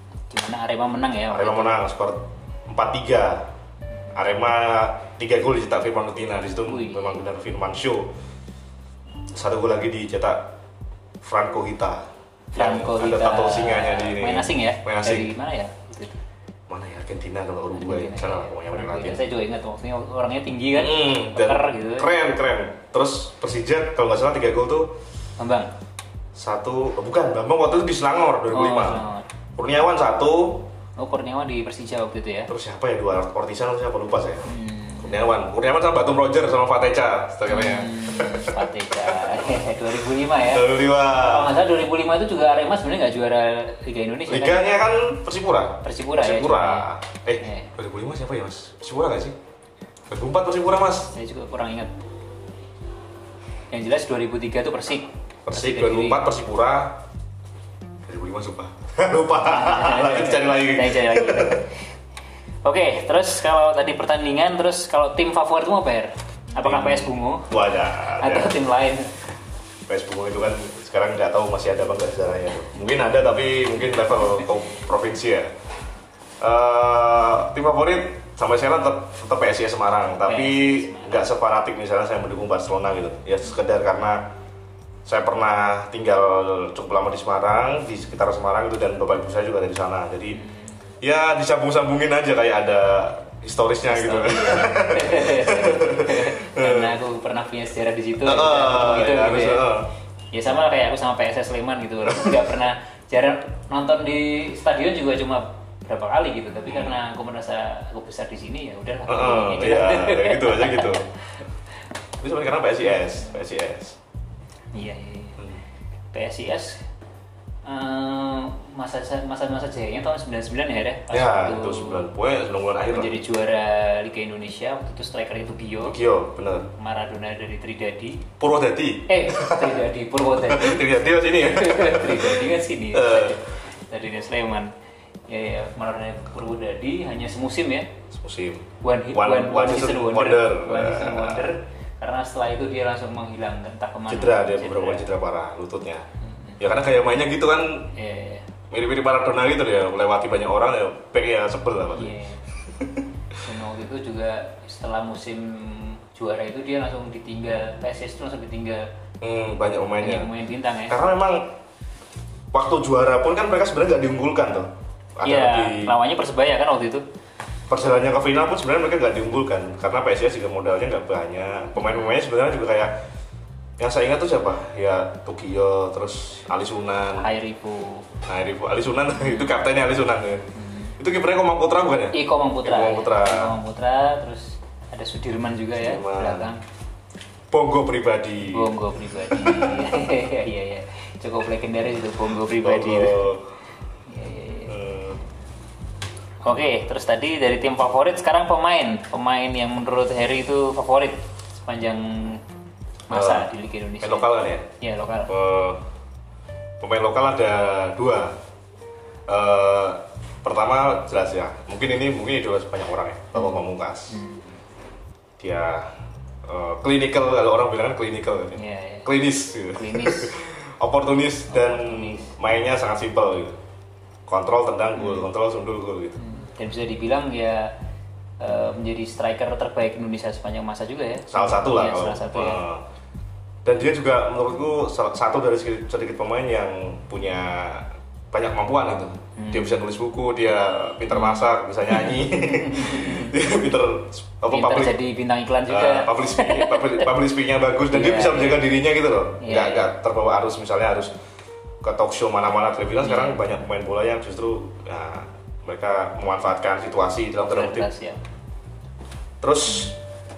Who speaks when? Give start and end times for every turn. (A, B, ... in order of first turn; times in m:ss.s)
0:00.3-0:01.8 A
0:01.3-0:03.5 B
0:04.1-0:08.1 B
0:06.6-0:07.2 A
0:09.3-0:10.5 B
0:11.2-0:15.3 B
0:12.5-0:16.2 A
0:16.7-0:19.2 B
0:17.8-0:22.1 A
0:20.7-0:24.9 B
0:25.4-0:25.7 A
0:26.4-0:29.0 B
0:28.5-0:29.2 A
0:29.6-0:30.7 B
0:31.0-0:32.5 A
0:32.5-0:34.4 B
0:34.4-0:35.2 A
0:35.0-0:39.5 B
0:37.5-0:44.6 A
0:40.4-0:41.5 B
0:44.3-0:49.4 B
0:45.8-0:46.9 A
0:47.4-0:47.7 A
0:50.1-0:51.1 B
0:51.1-0:51.9 A
0:53.7-0:56.2 A
0:55.5-0:57.0 B
0:58.0-1:01.6 B
0:59.4-1:01.8 A
1:02.6-1:07.5 A
1:06.6-1:08.6 B
1:08.0-1:09.1 A
1:09.9-1:15.5 B
1:16.4-1:24.3 B
1:20.2-1:21.2 A
1:25.0-1:30.4 B
1:30.4-1:30.6 A
1:31.0-1:37.0 B
1:33.9-1:39.6 A
1:38.2-1:39.9 B
1:40.3-1:51.2 A
1:46.7-1:46.9 B
1:49.1-1:51.1 B
1:52.2-1:54.0 B
1:54.7-1:55.4 A
1:56.1-1:56.8 A
1:57.6-2:02.0 A
2:01.1-2:03.2 B
2:02.8-2:06.0 A
2:05.8-2:06.7 B
2:06.7-2:08.3 A
2:08.4-2:09.8 B
2:09.1-2:14.7 A
2:10.4-2:13.4 B
2:15.3-2:17.9 A
2:18.1-2:21.5 B
2:18.8-2:25.1 A
2:24.1-2:26.1 B
2:26.2-2:26.6 A
2:26.6-2:27.9 B
2:27.9-2:28.5 A
2:28.7-2:32.1 B
2:31.9-2:32.4 A
2:32.8-2:33.0 B
2:33.4-2:38.9 A
2:39.2-2:40.3 B
2:40.0-2:41.0 A
2:40.9-2:41.5 B
2:42.5-2:45.9 B
2:45.2-2:47.0 A
2:47.7-2:53.0 B
2:51.8-2:52.1 A
2:53.8-2:57.3 B
2:57.2-2:58.1 A
2:58.2-3:00.4 B
2:59.2-2:59.5 A
3:00.5-3:01.0 A
3:01.0-3:03.5 B
3:02.1-3:06.6 A
3:05.8-3:06.5 B
3:07.5-3:08.7 B
3:08.4-3:13.3 A
3:09.3-3:09.9 B
3:12.5-3:13.5 B
3:14.1-3:14.8 A
3:14.7-3:15.2 B
3:16.4-3:22.4 A
3:23.1-3:24.3 A
3:23.1-3:23.5 B
3:24.0-3:24.7 B
3:24.8-3:25.3 A
3:25.3-3:25.8 B
3:26.8-3:28.4 B
3:29.3-3:34.2 B
3:33.3-3:34.5 A
3:35.4-3:35.9 B
3:36.4-3:43.6 B
3:38.6-3:39.1 A
3:39.7-3:40.4 A
3:41.5-3:42.4 A
3:44.3-3:46.2 B
3:45.0-3:45.2 A
3:46.2-3:47.7 A
3:48.4-3:52.6 A
3:51.3-3:52.8 B
3:53.6-4:05.0 B
3:59.4-3:59.7 A
4:01.1-4:03.3 A
4:04.5-4:07.1 A
4:05.7-4:11.1 B
4:07.9-4:08.7 A
4:09.4-4:09.9 A
4:11.8-4:17.9 B
4:13.0-4:13.4 A
4:17.4-4:18.2 A
4:19.4-4:20.0 B